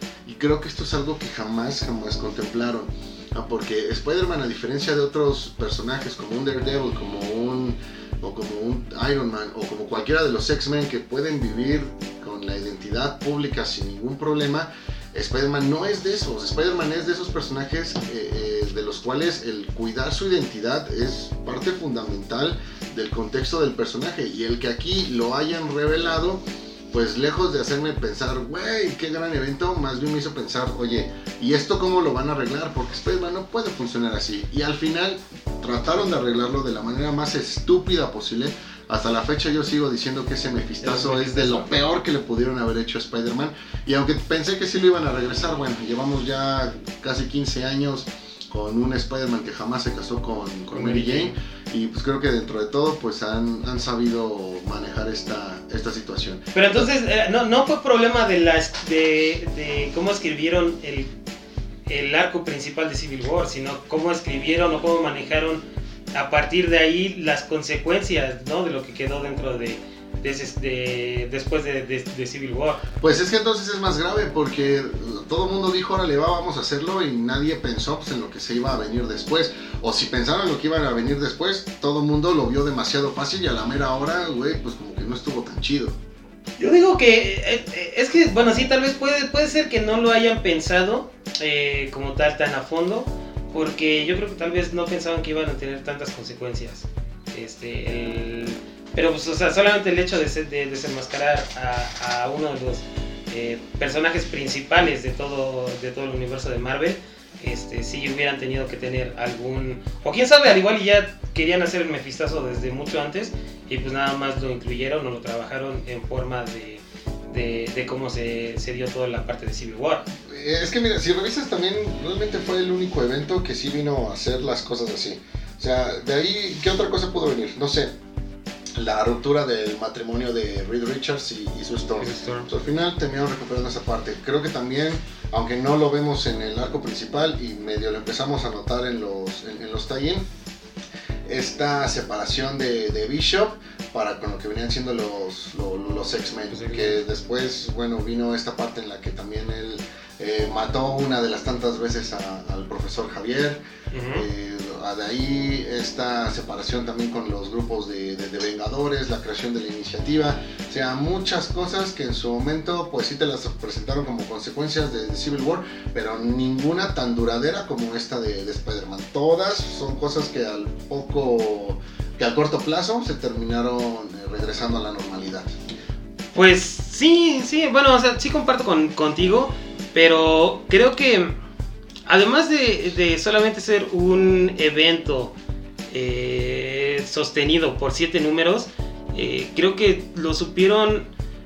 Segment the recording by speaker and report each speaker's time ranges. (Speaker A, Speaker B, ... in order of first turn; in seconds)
Speaker A: 0.3-56.9, 73.0-86.0, 120.2-127.9, 128.8-140.2, 141.3-153.6, 154.1-175.6
Speaker B: 40.8-41.7, 50.7-51.4, 56.5-61.1, 61.9-65.6, 66.1-72.8, 86.6-120.1, 132.0-132.5, 146.5-147.0, 153.9-154.3, 176.3-181.3, 182.1-185.3, 185.9-191.1